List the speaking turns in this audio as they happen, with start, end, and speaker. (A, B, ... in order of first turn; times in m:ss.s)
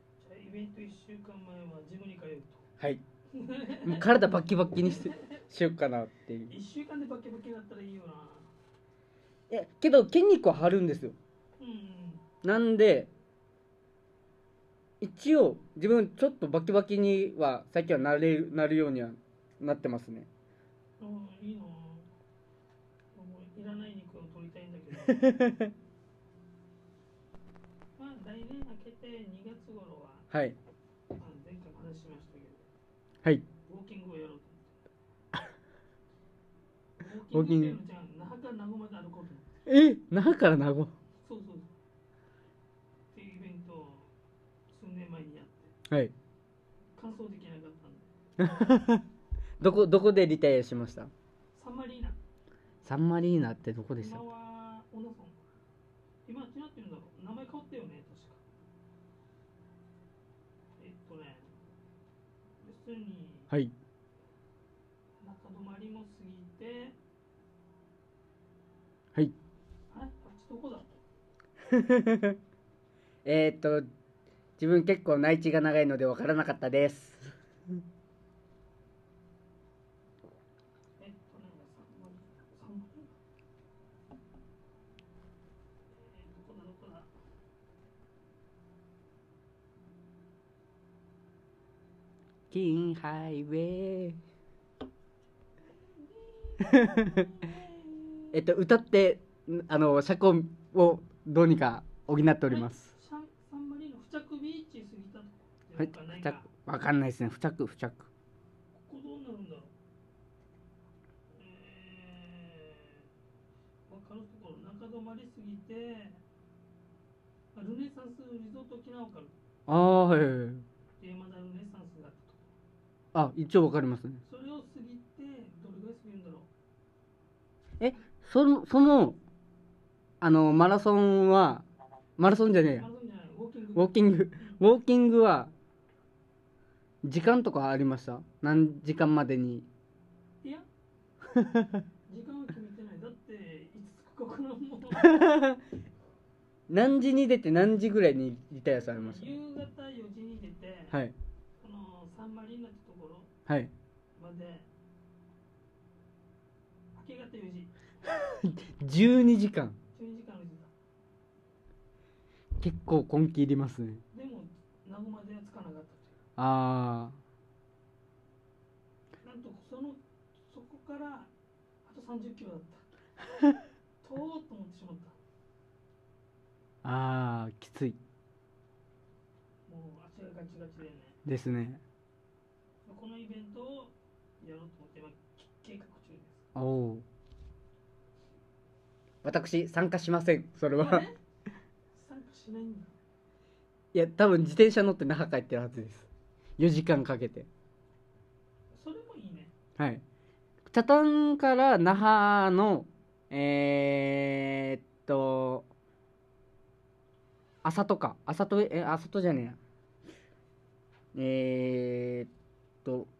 0:00.2-0:02.7 A
0:03.3-0:04.1 A
0:03.8-0:06.5 B
0:04.8-0:05.4 A
0:06.5-0:08.5 A
0:09.5-0:11.2 B
0:11.6-0:12.2 A
0:12.4-0:13.1 B
0:15.0-0:20.3 B
0:21.0-0:22.1 A
0:23.1-0:25.6 A
0:25.1-0:25.7 B
0:28.0-0:30.3 A
0:30.3-0:30.6 B
0:31.2-0:32.6 A
0:33.6-0:34.8 A
0:37.0-0:39.5 A
0:37.3-0:37.8 B
0:39.7-0:40.9 B
0:41.2-0:41.7 A
0:43.1-0:44.1 A
0:44.7-0:45.7 A
0:47.0-0:48.1 A
0:48.4-0:49.0 B
0:49.6-0:51.1 B
0:51.5-0:52.2 A
0:52.8-0:54.2 B
0:54.0-0:55.4 A
0:56.2-0:58.4 A
1:00.8-1:01.5 A
1:02.6-1:03.5 A
1:05.2-1:07.0 A
1:09.9-1:11.0 A
1:11.6-1:12.4 B
1:13.2-1:13.9 B
1:14.6-1:17.4 B
1:21.0-1:23.1 A
1:25.9-1:27.1 A
1:32.5-1:34.2 B
1:35.8-1:38.4 A
1:36.7-1:37.2 B
1:38.3-1:42.9 B
1:42.5-1:46.5 A
1:45.8-1:48.1 B
1:48.8-1:49.7 A
1:51.4-1:53.1 A
1:53.9-1:56.2 A
1:57.5-1:59.3 A
1:59.7-2:00.6 B
2:01.0-2:02.5 A
2:03.1-2:04.2 B
2:04.2-2:06.5 A
2:07.8-2:09.2 B
2:10.2-2:11.7 B
2:12.2-2:12.9 B
2:12.7-2:14.6 A
2:13.8-2:15.5 B
2:17.0-2:19.7 B
2:21.3-2:21.7 B
2:22.1-2:25.2 A
2:25.0-2:25.6 B
2:26.7-2:29.4 B
2:29.0-2:31.0 A
2:31.6-2:33.3 A
2:33.5-2:33.7 B
2:34.2-2:34.7 A
2:37.0-2:37.7 A
2:38.1-2:39.8 B
2:39.9-2:40.7 A
2:42.6-2:44.0 B
2:44.1-2:46.2 A
2:46.4-2:47.2 B
2:49.2-2:51.3 A
2:51.8-2:52.9 A
2:54.0-2:55.2 A
2:56.8-2:58.0 B
2:59.7-3:01.2 A
3:01.3-3:01.8 B
3:02.8-3:06.4 A
3:06.6-3:07.0 B
3:09.2-3:11.1 B
3:10.8-3:11.2 A
3:11.9-3:12.9 A
3:13.9-3:17.5 B
3:18.7-3:19.5 A
3:19.8-3:20.0 B
3:20.7-3:25.7 B
3:27.6-3:29.6 B
3:31.1-3:32.3 B